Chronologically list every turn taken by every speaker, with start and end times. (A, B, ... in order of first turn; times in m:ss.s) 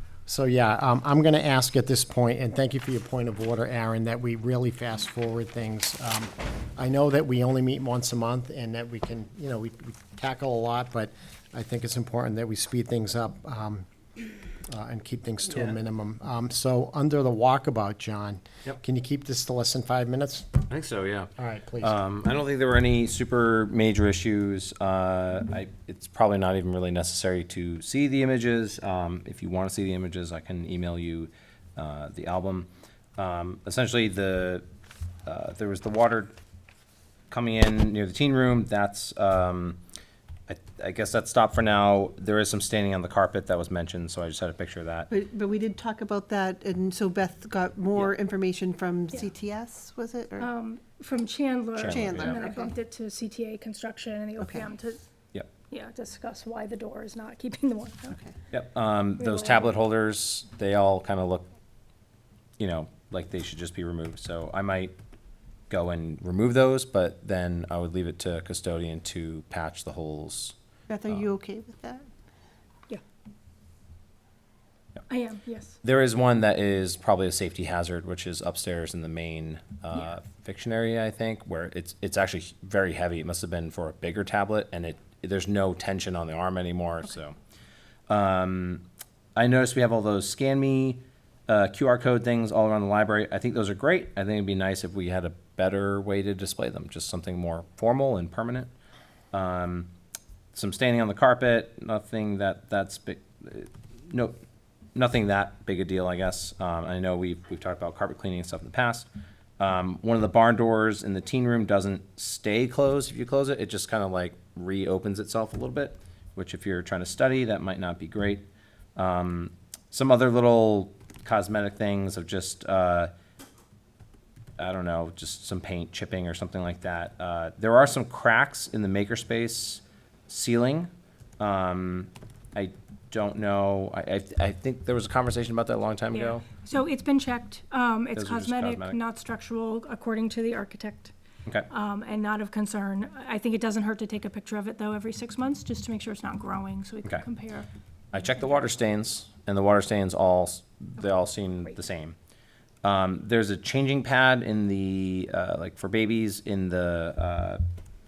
0:00.3-0:13.9 A
0:14.7-0:20.6 A
0:20.7-0:34.6 B
0:21.4-0:22.0 A
0:35.3-0:36.3 B
0:37.3-0:39.8 B
0:40.5-0:45.1 B
0:45.1-0:50.5 C
0:50.4-0:55.0 D
0:51.8-0:52.4 B
0:51.9-0:52.7 C
0:54.4-0:54.7 C
0:55.7-0:58.2 D
0:58.5-1:01.4 B
0:59.2-0:59.8 D
1:02.6-1:04.9 B
1:05.7-1:10.6 B
1:10.9-1:12.1 C
1:15.1-1:15.8 D
1:15.8-1:27.4 B
1:28.1-1:28.8 B
1:29.4-1:38.7 B
1:39.3-1:39.9 B
1:40.5-1:44.4 B
1:45.0-1:49.1 B
1:49.6-2:03.1 B
2:04.6-2:16.5 B
2:16.1-2:21.1 D
2:18.2-2:19.0 B
2:21.7-2:27.7 D
2:28.1-2:32.2 B
2:32.8-2:37.6 B